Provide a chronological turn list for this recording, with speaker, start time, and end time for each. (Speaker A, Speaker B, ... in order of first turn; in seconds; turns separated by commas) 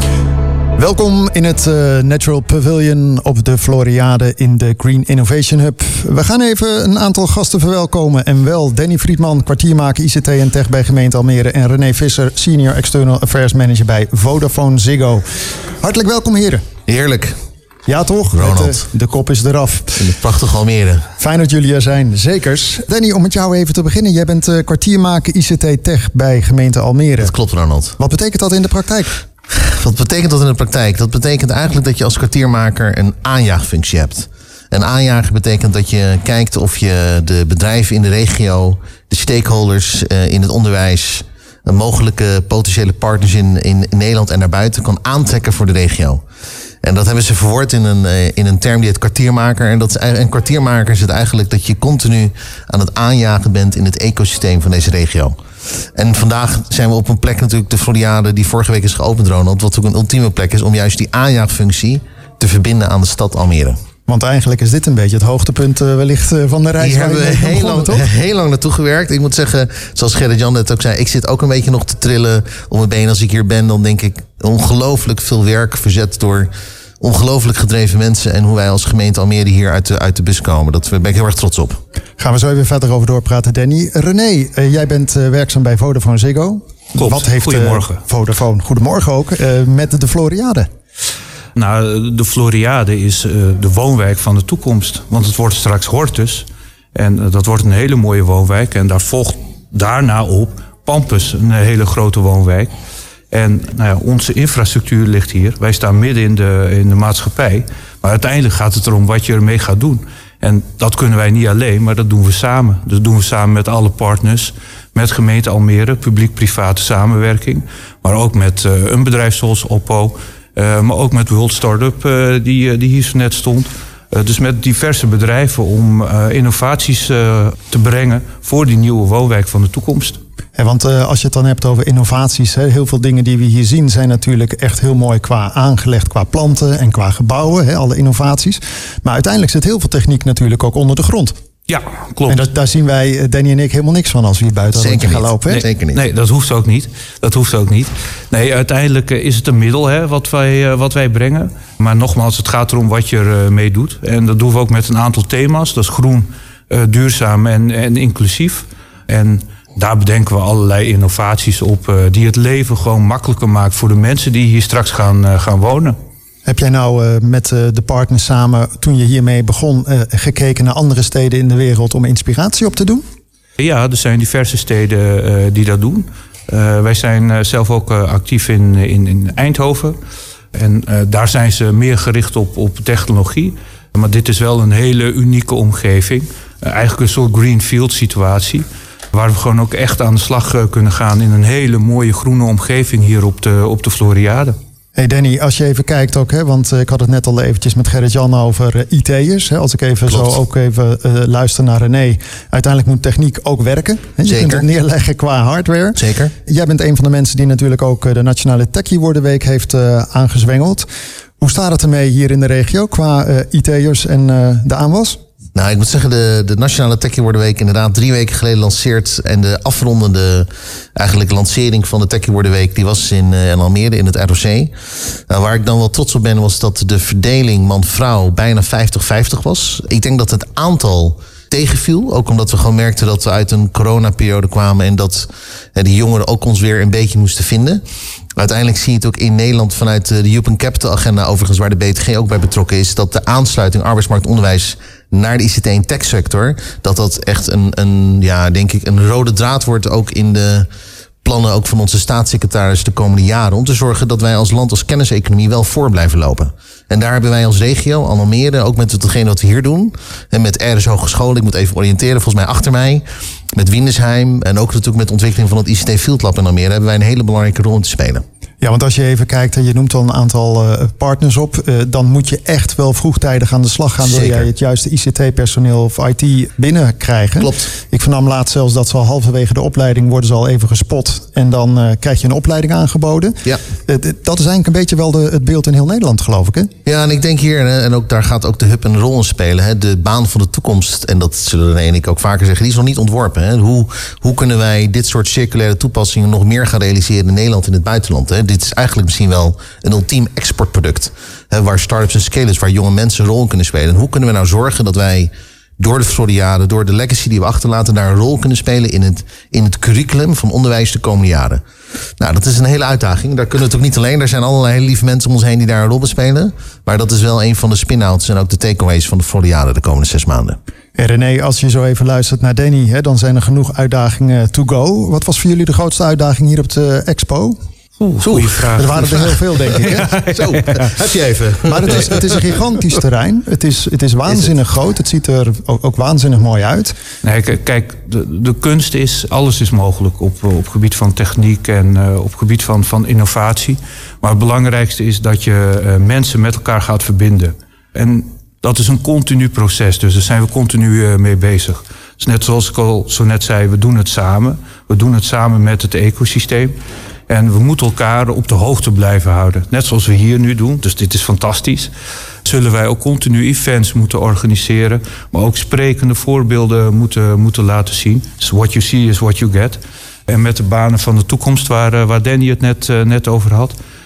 Speaker A: 0.8-15.2, Speaker A: 15.8-16.6, Speaker B: 16.9-17.4, Speaker A: 17.9-20.1, Speaker B: 18.3-18.8, Speaker B: 20.0-21.0, Speaker A: 21.2-27.4, Speaker B: 27.2-28.0, Speaker A: 28.0-29.2, Speaker B: 29.6-46.2, Speaker B: 46.8-55.4, Speaker B: 56.0-63.8, Speaker A: 64.1-68.1, Speaker B: 66.8-81.8, Speaker A: 82.2-90.7, Speaker C: 87.0-88.0, Speaker C: 91.5-102.7, Speaker C: 103.3-130.2, Speaker A: 130.6-141.3, Speaker C: 141.7-142.4, Speaker A: 142.3-145.7, Speaker B: 144.8-146.0, Speaker C: 145.5-166.0, Speaker A: 166.5-173.0, Speaker C: 173.6-180.0, Speaker C: 180.5-194.6, Speaker A: 195.0-210.9, Speaker B: 200.1-200.4, Speaker B: 204.2-204.6, Speaker B: 206.0-206.2, Speaker A: 211.4-215.2, Speaker B: 215.6-224.7, Speaker B: 225.3-237.8, Speaker B: 238.4-250.7, Speaker B: 251.2-263.0, Speaker B: 263.6-268.2, Speaker A: 268.6-286.7, Speaker B: 274.0-274.5, Speaker B: 277.4-277.7, Speaker B: 286.9-311.6, Speaker B: 312.2-320.6, Speaker A: 321.0-327.6, Speaker C: 328.0-328.9, Speaker B: 328.2-332.5, Speaker A: 328.8-330.2, Speaker C: 330.1-330.8, Speaker A: 331.7-336.9, Speaker C: 337.2-356.8, Speaker C: 357.3-361.9, Speaker C: 362.4-373.8